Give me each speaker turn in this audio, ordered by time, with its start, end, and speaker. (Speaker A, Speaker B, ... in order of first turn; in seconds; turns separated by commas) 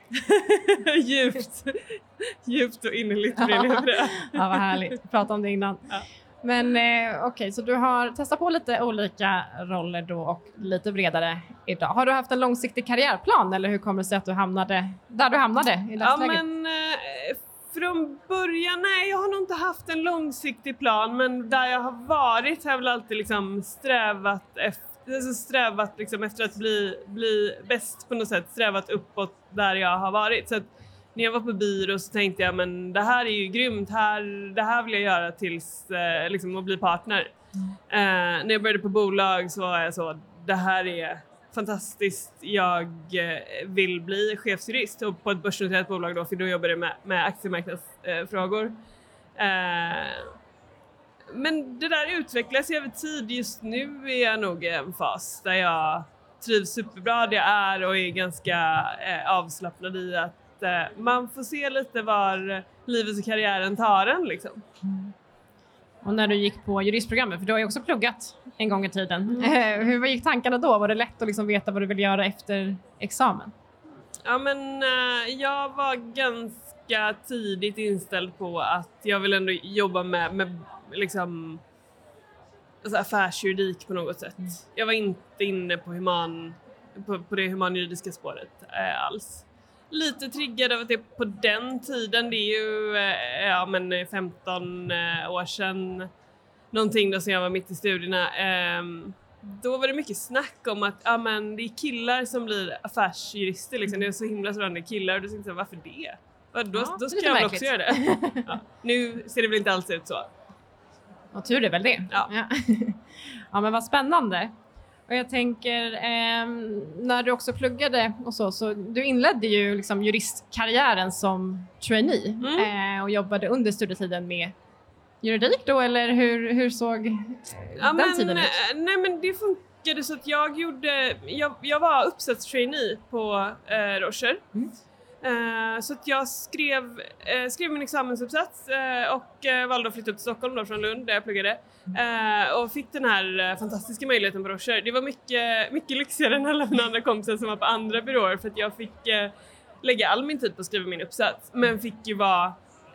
Speaker A: 0.2-4.9, Speaker B: 3.4-16.4, Speaker A: 16.0-37.3, Speaker A: 37.9-48.7, Speaker A: 49.4-50.3, Speaker A: 51.3-64.6, Speaker B: 64.8-65.1, Speaker B: 66.0-73.5, Speaker A: 69.3-69.6, Speaker A: 74.2-81.6, Speaker A: 82.8-96.1, Speaker A: 96.7-110.3, Speaker B: 106.7-108.5, Speaker B: 111.3-114.5, Speaker B: 115.1-124.5, Speaker A: 122.4-122.7, Speaker B: 125.2-128.5, Speaker A: 127.8-134.5, Speaker A: 135.2-152.6